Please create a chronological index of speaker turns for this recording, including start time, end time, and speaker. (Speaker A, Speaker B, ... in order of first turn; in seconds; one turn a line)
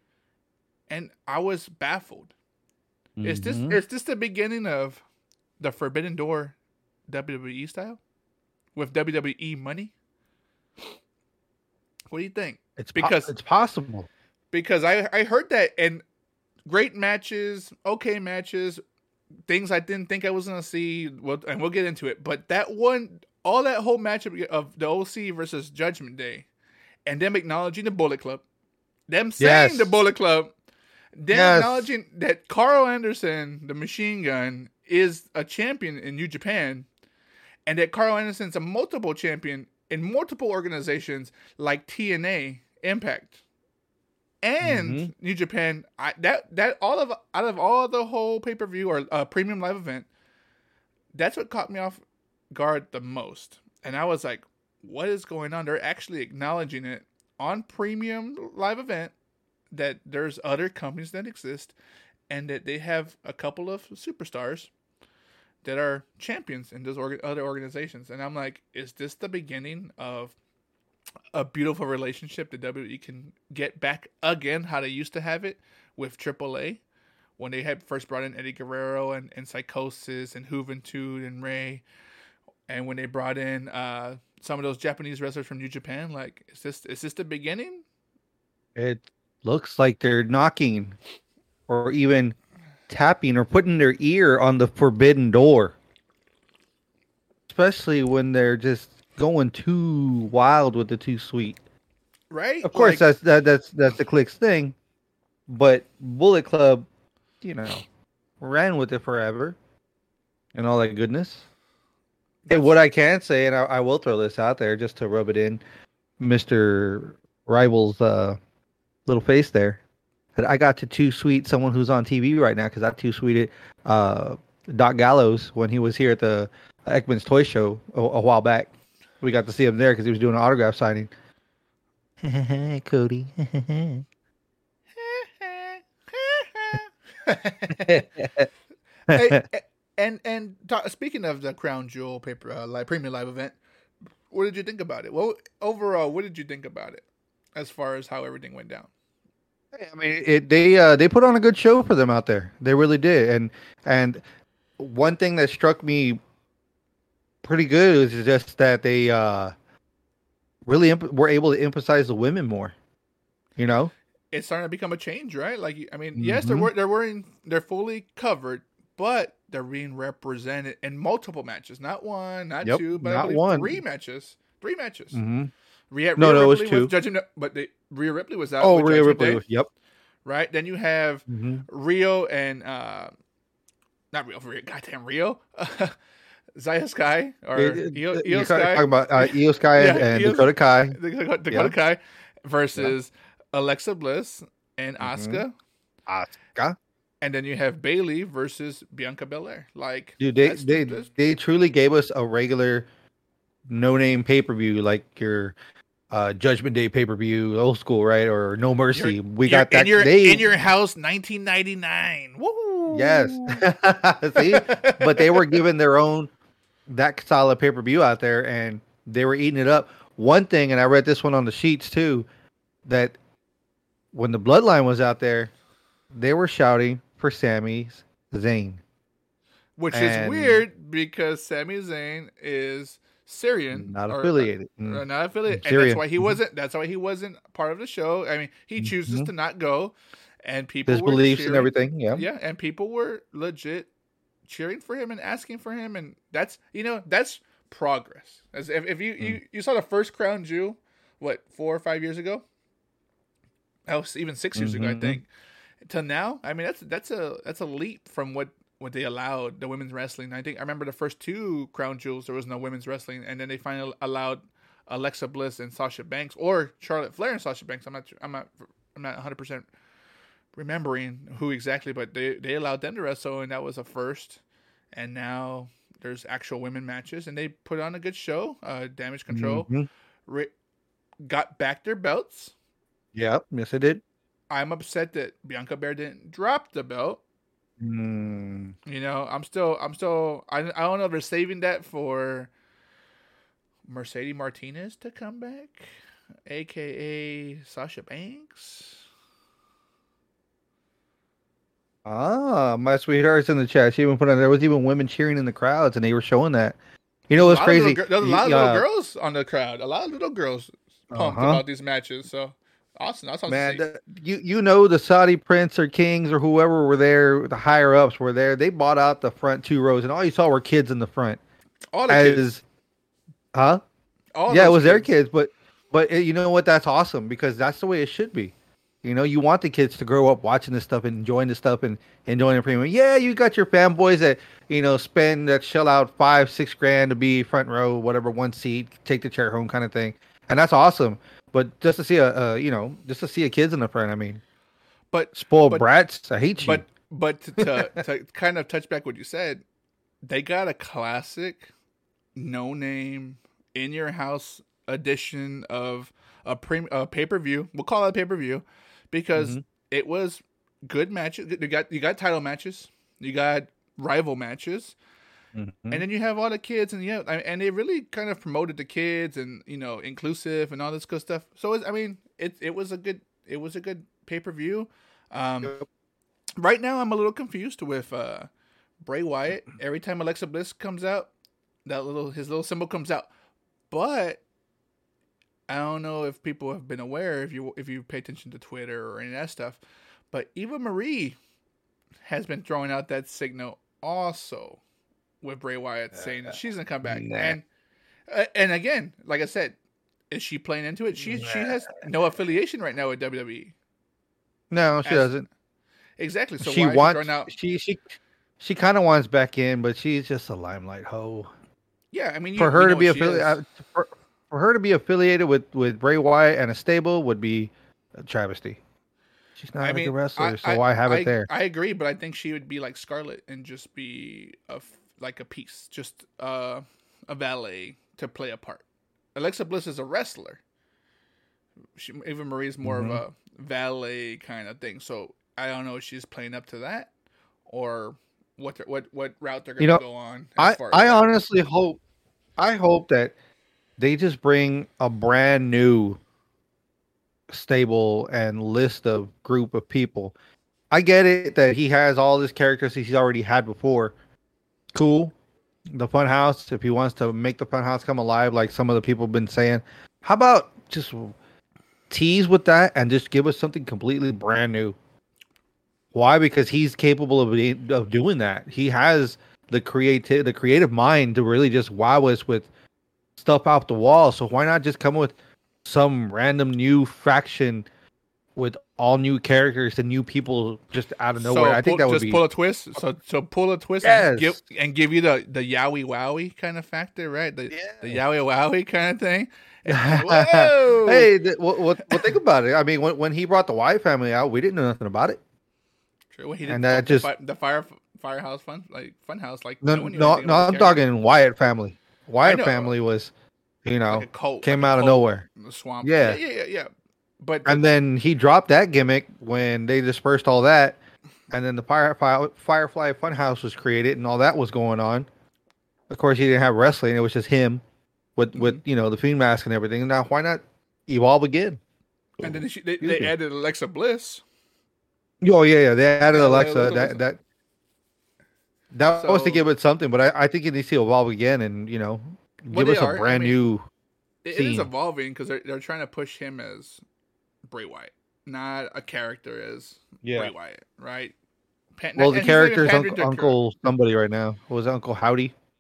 Speaker A: 0.9-2.3
Speaker B: 3.2-3.8
Speaker A: 3.2-5.0
Speaker A: 5.6-6.6
Speaker A: 7.1-8.0
Speaker A: 8.8-9.9
Speaker A: 12.1-13.3
Speaker B: 12.8-14.1
Speaker A: 14.5-16.0
Speaker A: 16.6-18.8
Speaker A: 19.5-26.5
Speaker A: 27.1-28.4
Speaker A: 29.1-30.5
Speaker B: 29.4-29.9
Speaker A: 31.1-36.9
Speaker B: 31.3-31.9
Speaker A: 37.6-43.4
Speaker A: 44.4-50.1
Speaker B: 44.6-45.1
Speaker A: 51.1-59.1
Speaker A: 59.7-61.7
Speaker A: 62.3-64.7
Speaker A: 65.6-70.3
Speaker A: 71.3-76.8
Speaker A: 77.4-81.8
Speaker A: 82.7-87.8
Speaker B: 88.8-91.0
Speaker B: 91.7-92.4
Speaker B: 92.9-95.8
Speaker B: 97.5-101.6
Speaker A: 102.3-103.1
Speaker B: 102.6-104.8
Speaker B: 105.5-106.9
Speaker B: 107.4-107.9
Speaker B: 108.4-109.6
Speaker B: 110.5-111.4
Speaker A: 112.5-112.8
Speaker B: 112.5-115.6
Speaker B: 116.2-118.4
Speaker B: 119.1-119.8
Speaker B: 120.4-128.7
Speaker B: 129.2-131.1
Speaker B: 132.2-134.1
Speaker A: 135.0-138.1
Speaker B: 137.7-138.5
Speaker A: 139.1-143.6
Speaker B: 139.1-139.4
Speaker A: 144.3-148.9
Speaker B: 149.7-154.2
Speaker B: 154.8-156.2
Speaker B: 157.4-159.5
Speaker B: 160.7-162.7
Speaker B: 163.6-163.9
Speaker A: 164.3-175.2
Speaker B: 166.2-166.7
Speaker B: 172.6-173.8
Speaker B: 175.1-175.5
Speaker A: 175.9-179.4
Speaker B: 176.2-176.9
Speaker B: 178.6-179.7
Speaker A: 180.2-183.1
Speaker B: 181.3-181.6
Speaker A: 184.1-186.0
Speaker A: 186.6-195.5
Speaker B: 187.6-191.0
Speaker B: 195.0-195.4
Speaker B: 196.1-196.8
Speaker A: 197.2-201.1
Speaker B: 200.2-202.9
Speaker B: 203.7-205.6
Speaker B: 206.1-210.4
Speaker A: 208.9-213.7
Speaker B: 212.9-216.3
Speaker A: 214.4-215.6
Speaker B: 216.9-222.3
Speaker B: 222.9-223.2
Speaker B: 224.1-225.5
Speaker B: 226.1-228.8
Speaker A: 229.8-243.9
Speaker B: 229.9-230.6
Speaker B: 233.7-236.4
Speaker B: 238.8-239.3
Speaker B: 240.9-242.2
Speaker A: 244.5-252.4
Speaker A: 253.9-255.3
Speaker B: 254.6-255.2
Speaker A: 255.8-269.7
Speaker A: 270.6-274.4
Speaker A: 274.9-279.7
Speaker B: 279.3-279.9
Speaker A: 280.3-280.5
Speaker A: 281.2-282.5
Speaker B: 283.1-284.0
Speaker A: 284.5-287.2
Speaker B: 287.8-288.7
Speaker A: 288.9-292.5
Speaker A: 293.9-295.9
Speaker A: 296.5-299.1
Speaker B: 302.1-306.8
Speaker B: 307.3-308.8
Speaker A: 307.4-313.8
Speaker B: 311.1-311.6
Speaker B: 313.5-321.4
Speaker A: 321.9-322.5
Speaker B: 322.1-322.6
Speaker B: 323.5-323.8
Speaker A: 324.4-325.1
Speaker B: 324.5-344.4
Speaker A: 345.1-345.9
Speaker B: 345.4-346.9
Speaker A: 346.6-349.6
Speaker B: 347.6-348.0
Speaker A: 350.2-351.7
Speaker A: 352.4-364.9
Speaker B: 359.4-359.6
Speaker B: 365.6-366.0
Speaker A: 365.9-375.8
Speaker A: 376.6-378.5
Speaker A: 379.0-381.3
Speaker A: 381.9-383.3
Speaker A: 383.9-384.4
Speaker A: 385.7-391.4
Speaker A: 392.2-394.8
Speaker A: 395.4-397.6
Speaker B: 397.1-397.6
Speaker A: 398.3-399.8
Speaker A: 400.3-403.7
Speaker B: 401.3-401.7
Speaker B: 404.7-405.5
Speaker A: 405.1-405.4
Speaker A: 406.2-407.5
Speaker B: 406.6-411.5
Speaker A: 412.1-413.6
Speaker B: 412.6-418.8
Speaker B: 419.6-421.5
Speaker A: 419.8-428.8
Speaker A: 429.4-430.6
Speaker A: 431.9-437.1
Speaker B: 432.8-433.2
Speaker A: 437.7-441.3
Speaker B: 440.6-442.0
Speaker B: 442.6-443.3
Speaker B: 444.0-446.2
Speaker B: 447.5-450.4
Speaker B: 450.9-454.1
Speaker B: 454.9-455.3
Speaker B: 455.9-461.4
Speaker B: 462.1-464.9
Speaker B: 466.1-472.7
Speaker B: 473.4-477.9
Speaker B: 478.6-482.4
Speaker A: 481.4-491.3
Speaker B: 484.0-484.6
Speaker B: 487.7-488.2
Speaker B: 489.9-495.4
Speaker A: 496.3-501.0
Speaker B: 496.7-497.3
Speaker B: 499.8-503.3
Speaker A: 502.4-502.9
Speaker B: 503.9-505.4
Speaker A: 504.1-506.9
Speaker B: 506.0-506.4
Speaker A: 507.4-507.8
Speaker B: 507.6-511.0
Speaker B: 511.5-515.3
Speaker B: 516.1-517.8
Speaker B: 518.4-521.8
Speaker A: 518.5-518.8
Speaker A: 522.4-524.4
Speaker B: 522.4-523.3
Speaker B: 525.4-527.4
Speaker A: 526.3-527.2
Speaker B: 528.9-533.9
Speaker A: 529.1-529.6
Speaker A: 532.7-533.6
Speaker A: 534.4-537.0
Speaker B: 534.5-534.9
Speaker A: 537.7-541.3
Speaker B: 540.2-540.5
Speaker A: 542.0-543.6
Speaker B: 542.2-545.5